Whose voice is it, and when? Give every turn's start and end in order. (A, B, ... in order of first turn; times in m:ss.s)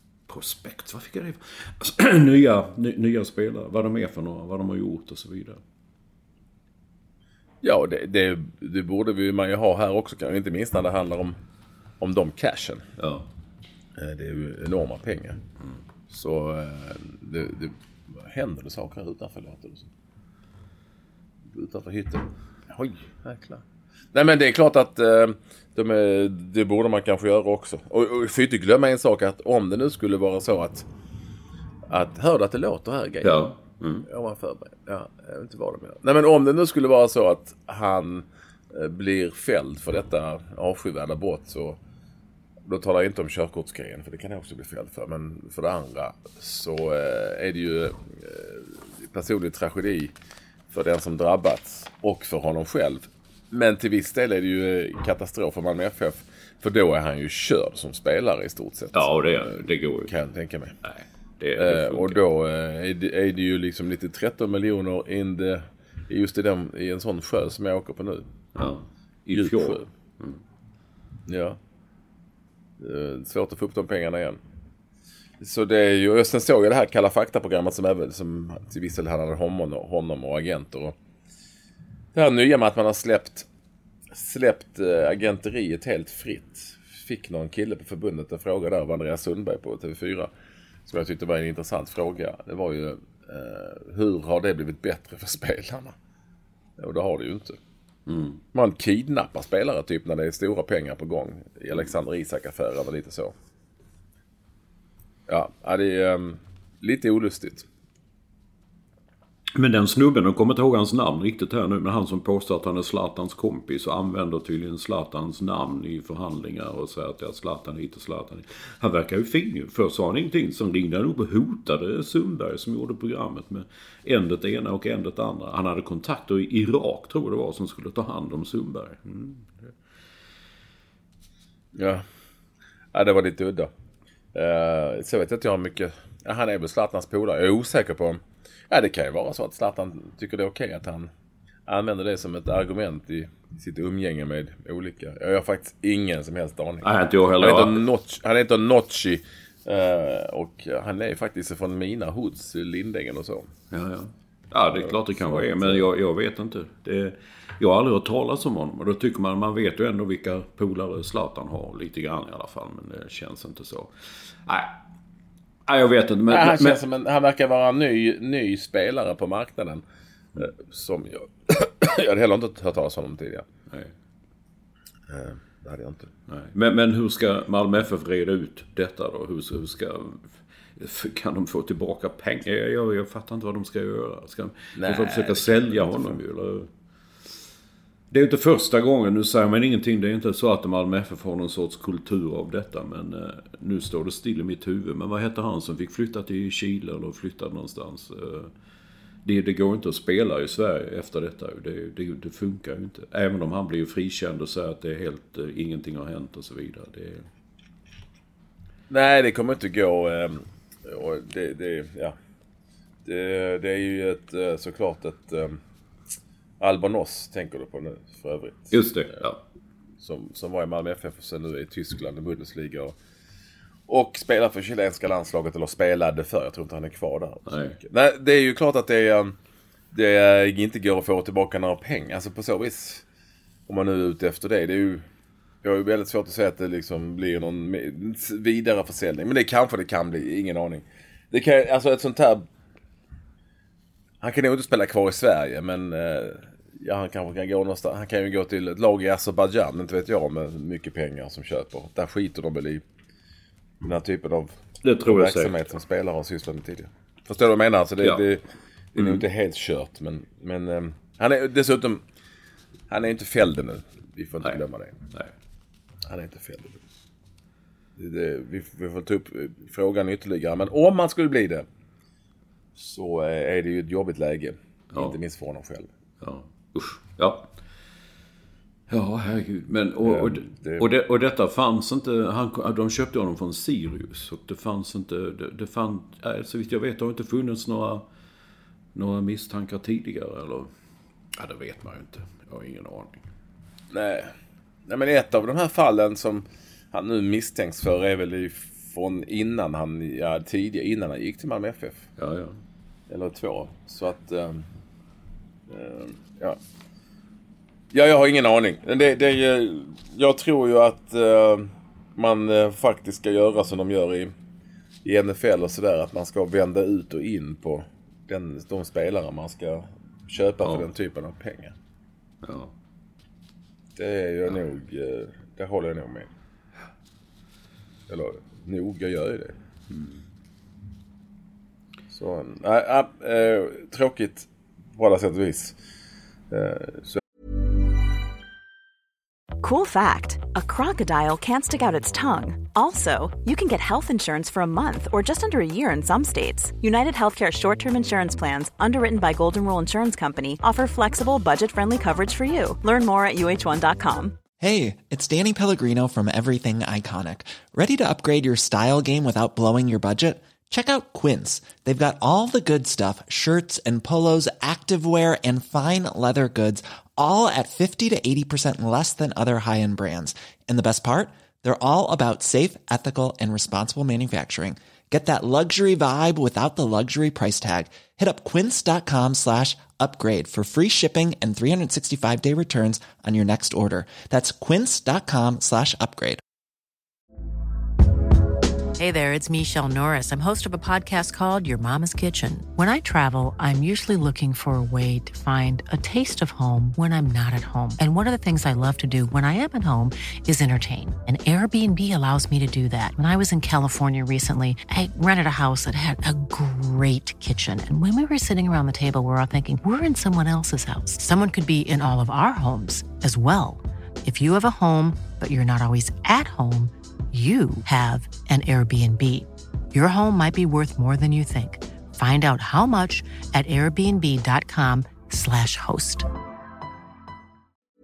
0:00.3-0:05.6 A
0:07.6-0:11.4 B
0:12.0-0:12.8 B
0:13.0-0:13.3 A
0:14.0-0:15.4 B
0:16.1-0:19.9 B
0:21.5-0:30.9 B
0:31.9-0:33.5 B
0:33.2-0:34.1 A
0:34.0-0:41.8 B
0:42.6-0:50.1 B
0:50.7-1:00.8 B
0:58.9-1:00.1 A
1:00.8-1:02.2 A
1:01.6-1:08.3 B
1:08.6-1:10.4 A
1:09.3-1:09.9 B
1:11.3-1:11.6 B
1:12.8-1:14.4 B
1:15.4-1:21.0 B
1:22.1-1:23.5 B
1:24.1-1:30.3 B
1:30.9-1:36.0 B
1:36.8-1:37.6 B
1:38.1-1:38.4 A
1:38.5-1:43.3 B
1:45.3-1:47.7 B
1:49.6-2:09.7 A
2:11.7-2:12.0 B
2:12.9-2:13.7 B
2:14.3-2:21.1 B
2:21.7-2:33.5 B
2:26.8-2:27.9 A
2:33.7-2:43.9 A
2:34.7-2:35.9 B
2:44.4-2:44.8 A
2:45.7-2:46.8 A
2:46.3-2:49.8 B
2:50.4-2:53.5 B
2:55.1-2:56.1 B
2:56.3-3:06.7 A
3:04.8-3:06.2 B
3:08.1-3:18.5 A
3:19.2-3:27.3 A
3:28.9-3:32.2 B
3:33.0-3:35.6 B
3:36.6-3:39.2 B
3:38.7-3:39.4 A
3:40.0-3:43.0 B
3:43.9-3:49.4 B
3:47.5-3:47.8 A
3:49.9-3:53.0 B
3:53.7-3:55.1 B
3:55.6-4:02.5 B
4:04.2-4:12.8 B
4:13.8-4:22.0 B
4:14.8-4:15.6 A
4:19.0-4:19.2 A
4:22.9-4:25.0 B
4:26.0-4:26.8 B
4:28.0-4:31.7 B
4:32.8-4:35.9 B
4:36.2-4:37.5 A
4:38.9-4:48.1 A
4:40.0-4:40.9 B
4:49.0-4:50.7 A
4:51.4-4:53.2 A
4:53.9-4:54.3 B
4:54.9-5:02.1 B
5:02.2-5:02.6 A
5:03.1-5:04.7 B
5:05.7-5:06.6 B
5:07.9-5:14.3 B
5:15.0-5:21.7 B
5:22.4-5:22.7 A
5:24.0-5:26.3 B
5:28.1-5:29.6 B
5:29.9-5:30.2 A
5:32.1-5:35.8 B
5:36.5-5:37.2 B
5:39.6-5:54.4 C
5:54.6-6:26.4 D
6:29.0-7:06.3 E